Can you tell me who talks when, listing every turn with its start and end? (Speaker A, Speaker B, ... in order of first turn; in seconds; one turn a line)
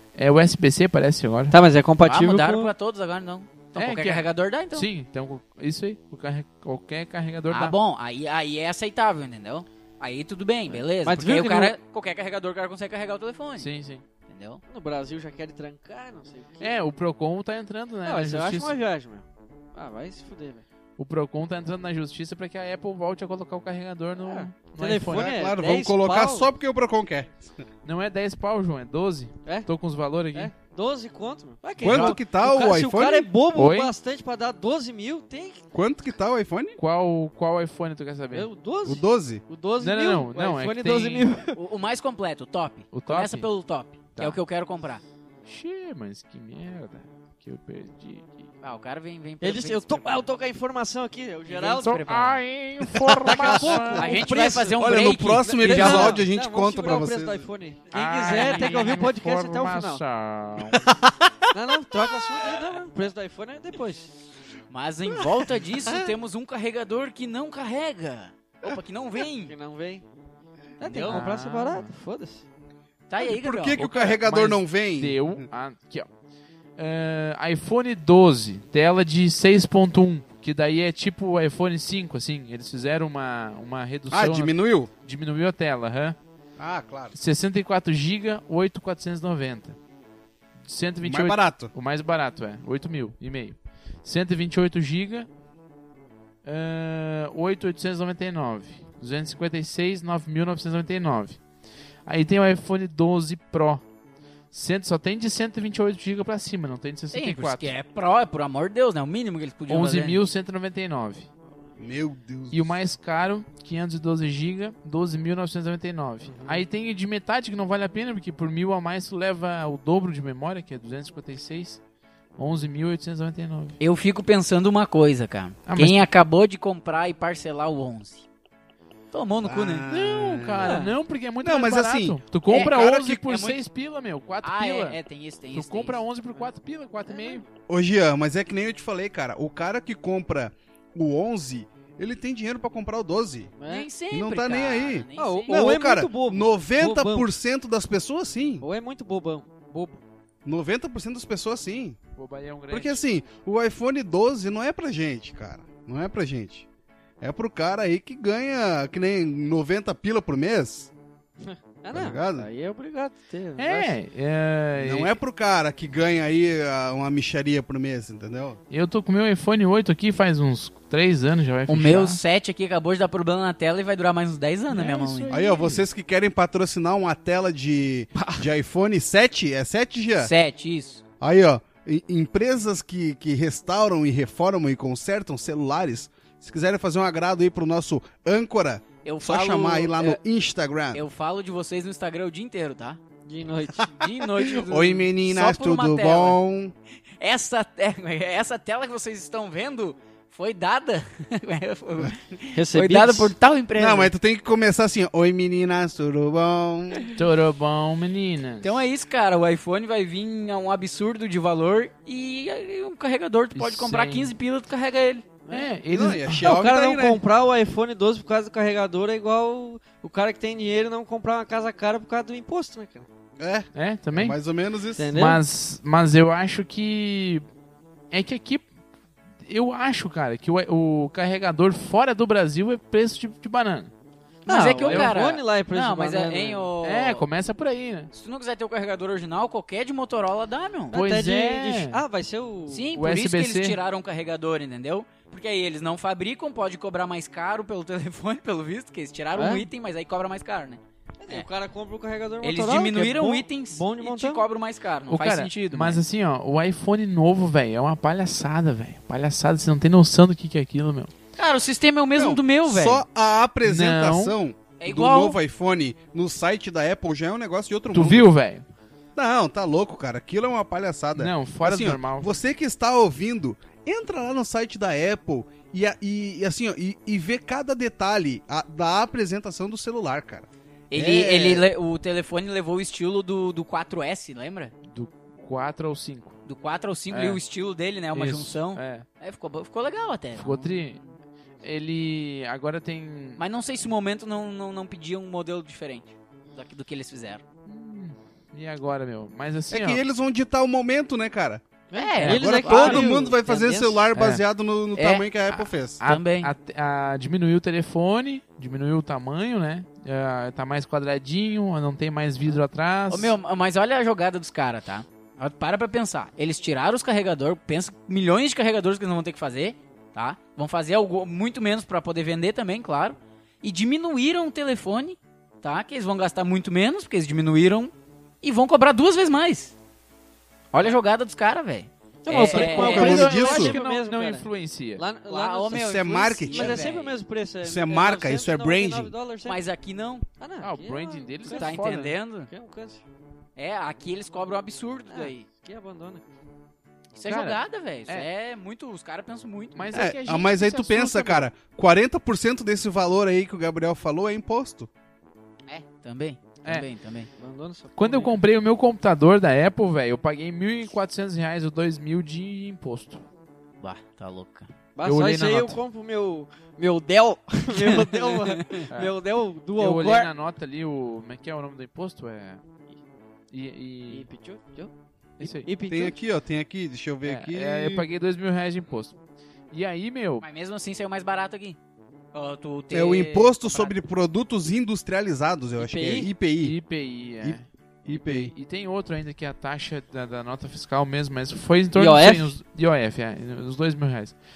Speaker A: 0.2-1.6
Speaker B: 1.5-2.7
Speaker C: 2.0-4.9
Speaker A: 3.8-7.8
Speaker C: 7.5-13.7
Speaker B: 11.0-11.8
Speaker A: 13.6-14.0
Speaker C: 14.3-14.6
Speaker B: 14.7-16.8
Speaker A: 16.6-18.8
Speaker B: 18.1-20.6
Speaker A: 21.0-25.4
Speaker B: 24.1-26.5
Speaker D: 25.1-27.6
Speaker A: 27.9-30.5
Speaker B: 30.3-35.6
Speaker D: 31.8-33.3
Speaker A: 33.5-33.9
Speaker D: 35.7-36.8
Speaker A: 36.8-38.5
Speaker B: 38.3-41.6
Speaker D: 38.9-39.4
Speaker A: 39.8-41.3
Speaker C: 41.5-45.0
Speaker A: 42.9-43.5
Speaker A: 45.5-48.5
Speaker C: 48.6-50.3
Speaker B: 49.4-52.0
Speaker C: 51.5-52.4
Speaker A: 51.8-54.2
Speaker B: 53.2-54.7
Speaker D: 53.2-57.5
Speaker C: 53.9-56.2
Speaker B: 55.5-60.0
Speaker A: 57.9-60.9
Speaker C: 58.2-59.1
Speaker D: 60.7-61.3
Speaker B: 61.5-64.1
Speaker C: 64.7-69.5
Speaker B: 69.4-70.0
Speaker B: 70.8-72.4
Speaker C: 70.8-71.2
Speaker A: 71.0-71.9
Speaker C: 73.1-73.9
Speaker D: 73.2-75.5
Speaker A: 73.8-76.1
Speaker A: 76.8-86.2
Speaker D: 84.1-84.9
Speaker D: 86.6-87.2
Speaker A: 87.2-89.8
Speaker A: 90.6-95.3
Speaker D: 91.0-91.7
Speaker A: 96.5-101.4
Speaker A: 102.1-103.8
Speaker A: 104.5-107.7
Speaker C: 107.1-110.2
Speaker A: 109.7-111.3
Speaker D: 111.8-112.7
Speaker A: 112.5-121.8
Speaker B: 116.2-116.6
Speaker A: 122.4-123.8
Speaker C: 123.8-128.3
Speaker A: 125.7-126.1
Speaker C: 129.1-129.9
Speaker D: 129.4-130.8
Speaker A: 129.9-135.0
Speaker B: 130.6-130.9
Speaker D: 131.4-133.5
Speaker C: 132.5-132.9
Speaker C: 134.4-136.0
Speaker A: 135.5-137.4
Speaker B: 137.1-137.4
Speaker D: 137.7-143.5
Speaker B: 143.6-143.9
Speaker C: 143.7-145.6
Speaker D: 144.1-148.7
Speaker B: 145.2-147.3
Speaker B: 148.6-150.0
Speaker D: 150.4-152.0
Speaker A: 152.2-153.0
Speaker D: 152.7-156.7
Speaker D: 157.2-160.9
Speaker B: 161.4-164.0
Speaker D: 161.9-162.5
Speaker A: 163.6-165.2
Speaker D: 164.8-168.6
Speaker A: 168.7-172.2
Speaker C: 171.7-175.3
Speaker A: 174.7-175.8
Speaker D: 175.3-180.3
Speaker C: 180.2-181.0
Speaker D: 181.2-191.0
Speaker C: 189.0-190.2
Speaker C: 190.9-193.0
Speaker B: 193.3-193.9
Speaker C: 193.9-196.4
Speaker D: 194.2-196.7
Speaker C: 197.2-204.1
Speaker B: 202.5-203.3
Speaker D: 203.8-207.1
Speaker A: 207.2-208.7
Speaker C: 208.6-215.3
Speaker A: 213.6-214.3
Speaker B: 215.5-215.7
Speaker A: 215.5-216.5
Speaker D: 215.9-217.2
Speaker B: 216.4-223.1
Speaker D: 223.4-225.1
Speaker A: 223.7-224.4
Speaker B: 225.0-225.4
Speaker A: 225.1-227.4
Speaker A: 228.1-228.7
Speaker A: 229.4-233.9
Speaker B: 234.5-236.7
Speaker C: 234.5-237.2
Speaker A: 234.8-235.1
Speaker A: 236.8-238.1
Speaker C: 238.1-241.0
Speaker B: 240.9-242.9
Speaker A: 240.9-242.0
Speaker C: 242.7-251.5
Speaker A: 242.9-243.8
Speaker B: 249.3-249.7
Speaker B: 251.2-254.5
Speaker C: 252.4-256.0
Speaker A: 255.1-261.1
Speaker C: 261.4-263.0
Speaker D: 262.2-268.3
Speaker A: 263.6-264.4
Speaker C: 264.8-265.4
Speaker A: 267.9-268.6
Speaker D: 269.2-281.7
Speaker A: 271.2-272.4
Speaker C: 280.9-284.7
Speaker A: 284.9-286.4
Speaker C: 286.5-291.0
Speaker A: 287.1-287.4
Speaker A: 288.1-289.1
Speaker A: 290.4-291.0
Speaker A: 291.6-293.4
Speaker C: 293.4-297.4
Speaker A: 297.7-300.0
Speaker D: 299.7-301.6
Speaker C: 301.9-303.1
Speaker B: 301.9-304.1
Speaker D: 302.2-306.0
Speaker A: 304.1-304.4
Speaker C: 305.0-305.3
Speaker A: 305.5-313.3
Speaker C: 306.0-306.5
Speaker C: 313.1-329.7
Speaker C: 330.7-333.2
Speaker A: 332.3-335.0
Speaker B: 332.4-334.5
Speaker D: 332.4-333.8
Speaker B: 335.0-336.0
Speaker C: 335.3-337.2
Speaker D: 335.7-336.9
Speaker B: 336.5-339.6
Speaker D: 337.6-339.1
Speaker C: 339.5-340.2
Speaker B: 340.4-341.8
Speaker A: 340.6-342.1
Speaker C: 341.5-342.5
Speaker B: 342.5-343.0
Speaker C: 343.6-345.5
Speaker B: 345.1-346.3
Speaker C: 347.1-350.1
Speaker A: 347.3-348.3
Speaker A: 349.8-351.5
Speaker D: 349.9-354.9
Speaker C: 355.7-357.3
Speaker B: 357.4-358.3
Speaker A: 358.0-363.2
Speaker C: 363.8-364.7
Speaker B: 365.0-370.3
Speaker A: 365.0-365.8
Speaker C: 367.7-368.9
Speaker A: 369.8-372.6
Speaker A: 373.5-374.3
Speaker B: 374.1-376.2
Speaker A: 375.4-375.7
Speaker D: 375.9-378.1
Speaker A: 377.2-379.2
Speaker A: 379.7-380.4
Speaker C: 380.4-381.8
Speaker C: 382.3-383.9
Speaker D: 382.9-386.8
Speaker B: 385.8-386.3
Speaker A: 386.6-394.4
Speaker D: 387.4-388.5
Speaker B: 391.9-392.6